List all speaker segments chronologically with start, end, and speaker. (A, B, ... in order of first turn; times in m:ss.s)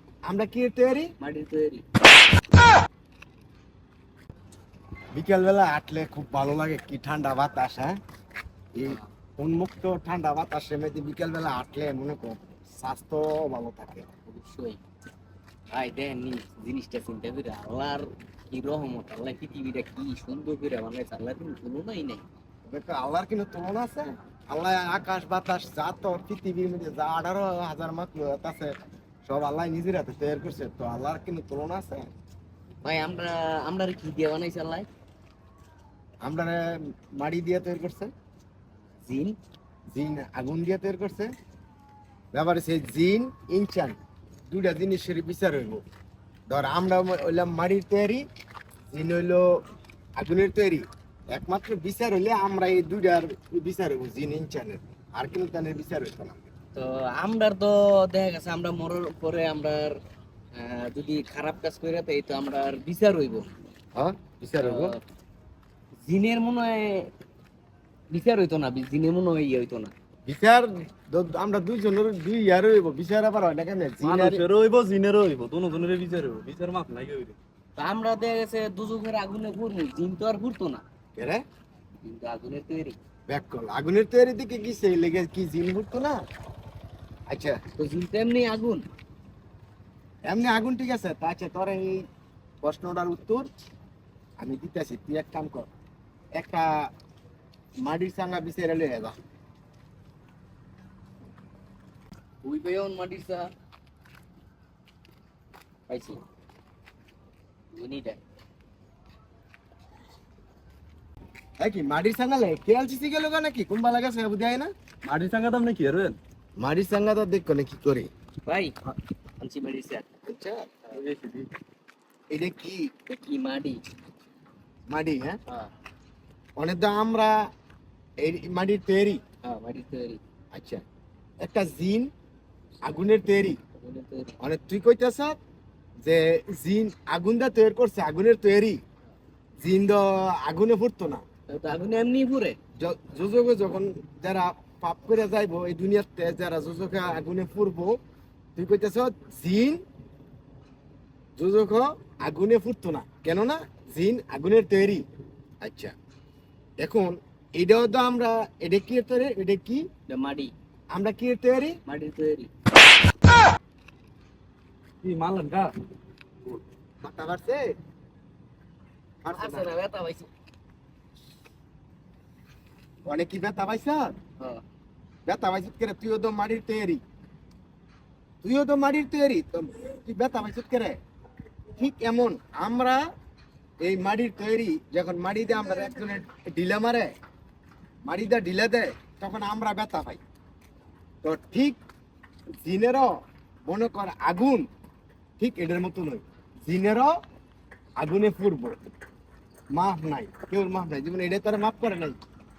0:00.2-0:01.1 A
0:01.2-0:01.8 B
0:05.1-0:07.9 A
0:08.7-0:14.1 A
0:14.3-0:14.8 B
0:15.7-0:22.2 B
0:22.7-0:32.1 A
0:32.8-0:34.9 B
0:36.2-0:38.1 A
0:39.0-0:39.4 B
0:39.9-0:41.3 A
0:42.3-0:44.0 A
0:44.5-0:45.8 A
0:46.5-0:48.2 A
0:48.9-0:49.5 A
0:50.2-0:56.4 A
0:56.7-1:00.0 B
1:00.5-1:03.5 B
1:04.0-1:05.0 A
1:04.6-1:04.9 B
1:06.1-1:07.1 B
1:08.1-1:09.9 B
1:10.3-1:14.4 A
1:14.0-1:17.4 C
1:17.8-1:20.8 B
1:21.2-1:21.4 A
1:22.0-1:23.0 B
1:23.3-1:26.2 A
1:27.3-1:27.6 A
1:27.7-1:28.8 B
1:30.3-1:32.0 A
1:32.6-1:33.5 A
1:34.4-1:35.7 A
1:36.4-1:36.9 A
1:37.8-1:39.1 A
1:42.4-1:43.5 B
1:45.9-1:46.2 B
1:47.7-1:48.2 B
1:51.6-1:54.7 A
1:55.0-1:56.2 C
1:56.6-1:58.1 A
1:58.4-1:58.7 B
1:59.4-2:00.1 B
2:00.2-2:00.9 A
2:00.9-2:01.5 C
2:02.3-2:02.9 A
2:03.1-2:03.8 B
2:04.9-2:05.4 A
2:06.6-2:07.3 A
2:08.2-2:09.2 A
2:09.4-2:10.2 B
2:10.5-2:10.8 A
2:11.4-2:12.1 A
2:12.8-2:13.6 A
2:13.7-2:14.4 B
2:14.4-2:15.4 A
2:16.0-2:18.8 A
2:19.6-2:21.2 A
2:21.5-2:22.6 B
2:22.7-2:28.0 A
2:28.6-2:29.8 A
2:31.4-2:35.0 A
2:35.6-2:35.9 A
2:36.8-2:39.9 A
2:40.1-2:40.5 B
2:40.9-2:41.8 A
2:41.8-2:42.5 B
2:45.0-2:45.7 C
2:47.0-2:47.6 A
2:49.2-2:49.7 A
2:49.4-2:50.3 B
2:53.0-2:54.1 A
2:55.2-2:57.0 A
2:58.4-3:01.0 A
3:01.8-3:03.0 A
3:03.8-3:07.1 A
3:08.0-3:10.2 A
3:11.2-3:11.8 A
3:12.6-3:14.7 A
3:15.4-3:17.1 A
3:18.0-3:18.8 A
3:19.7-3:22.2 A